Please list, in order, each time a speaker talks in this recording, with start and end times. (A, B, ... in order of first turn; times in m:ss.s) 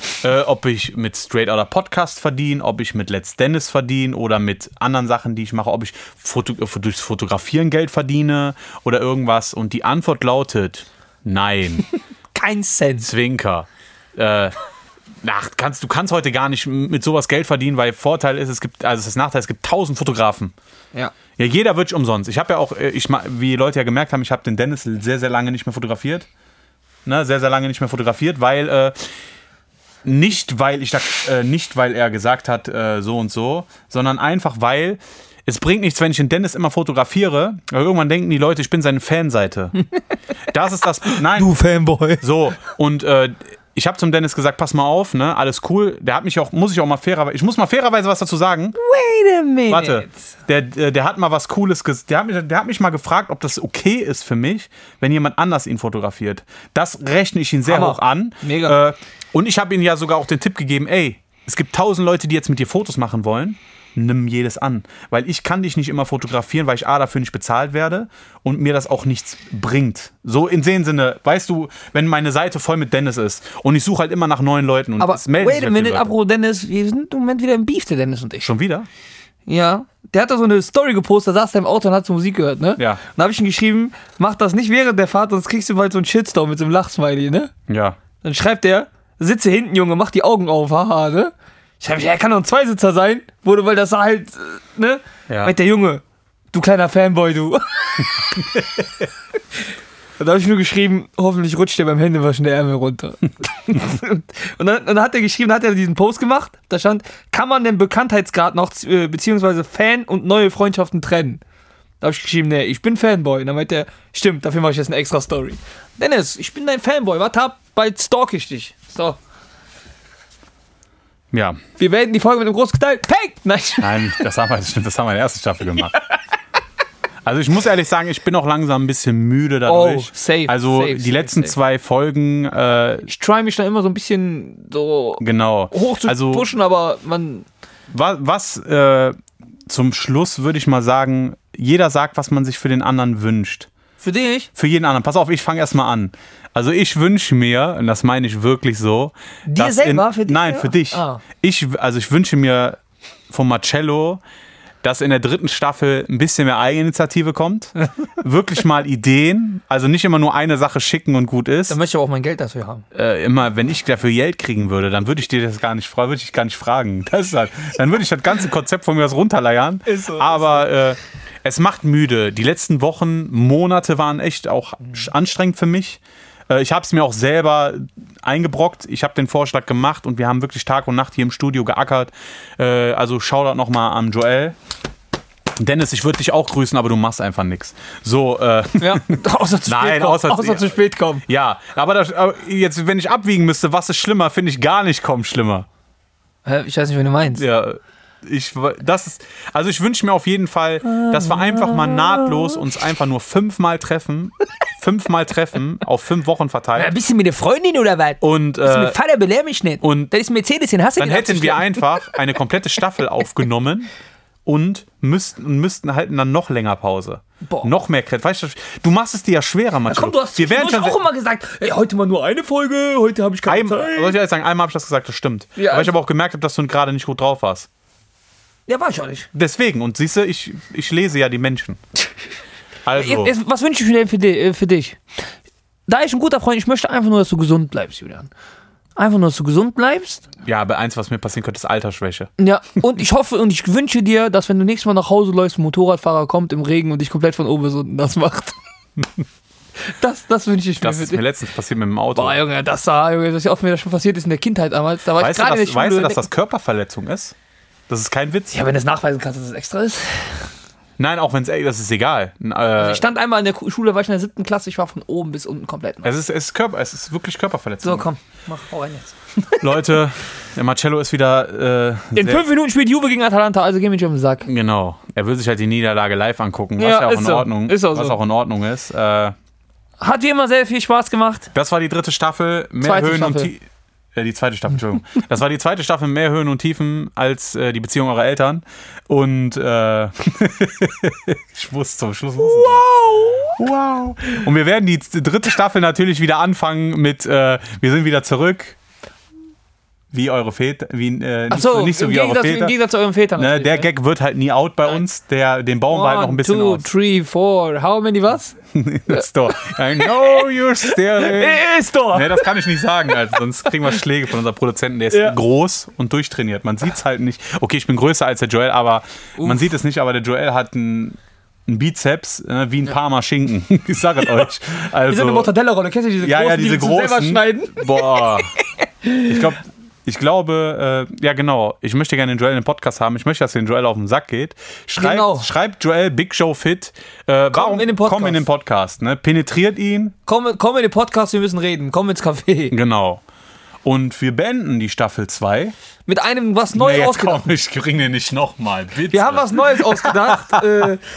0:00.2-0:11.9 A
0:12.4-0:13.1 B
0:13.0-0:14.5 A
0:15.2-0:20.5 A
0:21.4-0:26.3 A
0:27.0-0:29.0 A
0:30.0-0:39.7 A
0:40.5-0:41.5 A
0:41.1-0:42.2 B
0:42.2-0:48.8 A
0:48.8-0:50.1 B
0:49.7-1:16.1 A
0:57.7-0:58.8 B
1:15.0-1:18.5 B
1:18.4-1:18.9 A
1:19.5-1:27.5 B
1:27.7-1:28.0 A
1:28.2-1:36.0 B
1:35.3-1:35.5 A
1:36.5-1:38.1 B
1:40.2-1:51.4 B
1:52.0-1:59.2 B
2:01.3-2:01.6 A
2:01.8-2:04.3 B
2:03.8-2:06.0 A
2:07.2-2:13.1 A
2:09.7-2:11.5 B
2:13.0-2:17.5 B
2:15.2-2:16.5 A
2:17.9-2:19.2 A
2:19.7-2:23.7 A
2:24.0-2:24.5 B
2:24.6-2:32.8 A
2:29.5-2:31.2 B
2:33.3-2:34.2 A
2:34.8-2:41.8 A
2:41.7-2:42.9 B
2:42.9-3:04.6 A
2:49.9-2:50.7 B
3:05.6-3:15.7 A
3:08.8-3:11.2 B
3:16.4-3:17.4 B
3:17.4-3:26.9 A
3:20.8-3:22.6 B
3:26.8-3:32.0 B
3:28.2-3:29.0 A
3:29.8-3:30.1 A
3:31.0-3:33.9 A
3:34.5-3:41.0 A
3:37.4-3:37.7 B
3:39.9-3:44.2 B
3:43.4-3:47.7 A
3:45.6-3:45.9 B
3:48.7-3:49.3 B
3:49.3-3:51.8 A
3:52.8-3:53.4 A
3:53.0-3:55.0 B
3:55.9-3:58.3 B
3:59.0-4:00.3 B
4:00.4-4:02.3 A
4:02.4-4:08.6 B
4:09.9-4:11.2 B
4:10.8-4:12.4 A
4:12.2-4:16.3 B
4:15.2-4:17.4 A
4:17.9-4:18.6 A
4:18.5-4:20.5 B
4:21.0-4:23.0 A
4:22.8-4:26.1 B
4:26.0-4:28.1 A
4:27.8-4:29.8 B
4:29.6-4:32.4 A
4:32.2-4:34.5 B
4:34.4-4:39.3 A
4:36.8-4:38.2 B
4:40.0-4:41.5 B
4:41.5-4:52.8 A
4:42.8-4:43.5 B
4:52.4-4:53.6 B
4:53.6-4:58.8 A
5:00.1-5:02.8 A
5:01.5-5:03.9 B
5:03.4-5:06.9 A
5:05.9-5:08.6 B
5:08.7-5:25.5 A
5:09.1-5:12.6 B
5:15.1-5:15.4 B
5:19.4-5:19.7 B
5:25.1-5:29.6 B
5:26.2-5:28.5 A
5:29.3-5:40.2 A
5:35.0-5:35.5 B
5:37.5-5:38.4 B
5:40.3-5:42.8 B
5:42.7-5:43.2 A
5:43.8-5:45.8 A
5:46.1-5:47.5 B
5:46.7-5:50.6 A
5:49.1-5:51.0 B